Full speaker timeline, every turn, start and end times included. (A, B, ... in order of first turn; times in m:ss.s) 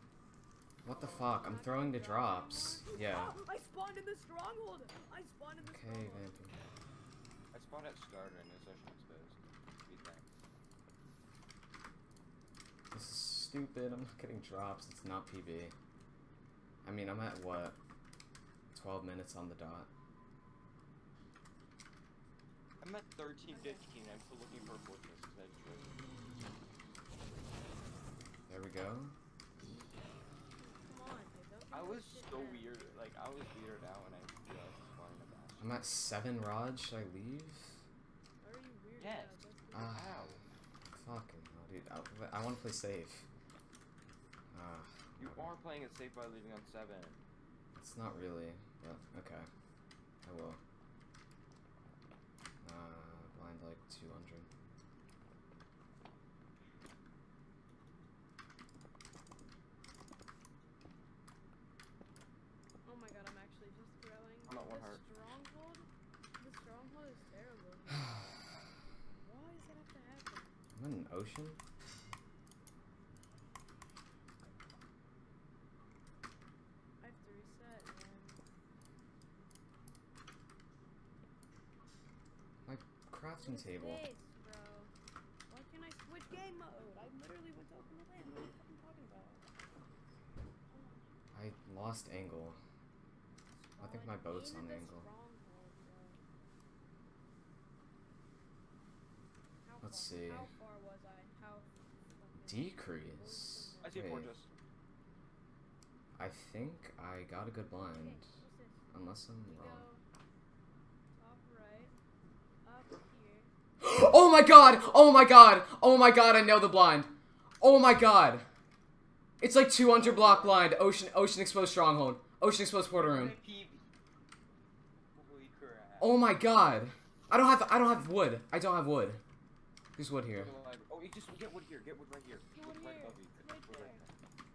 0:00.8-0:03.4 A
0:00.9-0:06.3 B
0:05.6-0:06.6 A
0:07.5-0:10.3 C
0:12.9-0:15.7 A
0:16.8-0:17.8 A
0:18.7-0:19.9 A
0:22.8-0:26.0 C
0:23.5-0:23.8 B
0:28.5-0:29.2 A
0:30.6-0:33.0 B
0:31.7-0:35.8 C
0:35.6-0:37.8 A
0:38.4-0:40.0 B
0:39.0-0:40.4 C
0:39.7-0:40.1 A
0:41.0-0:43.3 A
0:44.5-0:45.5 A
0:45.2-0:47.2 C
0:47.8-0:49.5 A
0:50.2-0:50.6 A
0:52.6-0:54.5 A
1:02.8-1:05.9 B
1:04.5-1:05.0 C
1:06.4-1:08.3 B
1:09.1-1:10.6 B
1:10.8-1:11.6 A
1:17.0-1:18.4 B
1:22.7-1:24.0 A
1:23.4-1:24.9 B
1:25.5-1:29.4 B
1:30.7-1:31.1 B
1:31.3-1:32.6 A
1:33.6-1:36.2 B
1:33.8-1:35.1 A
1:39.6-1:44.0 B
1:39.8-1:40.5 A
1:42.4-1:44.3 A
1:43.8-1:44.5 C
1:46.2-1:48.2 A
1:47.7-1:48.8 B
1:48.9-1:49.9 A
1:49.5-1:50.0 B
1:51.2-1:52.0 B
1:52.6-1:53.5 B
1:53.8-1:58.5 A
1:59.4-2:03.4 A
1:59.8-2:00.7 C
2:02.9-2:03.9 C
2:05.2-2:06.2 C
2:06.0-2:09.2 A
2:10.0-2:10.6 A
2:10.3-2:14.1 C
2:12.5-2:14.0 B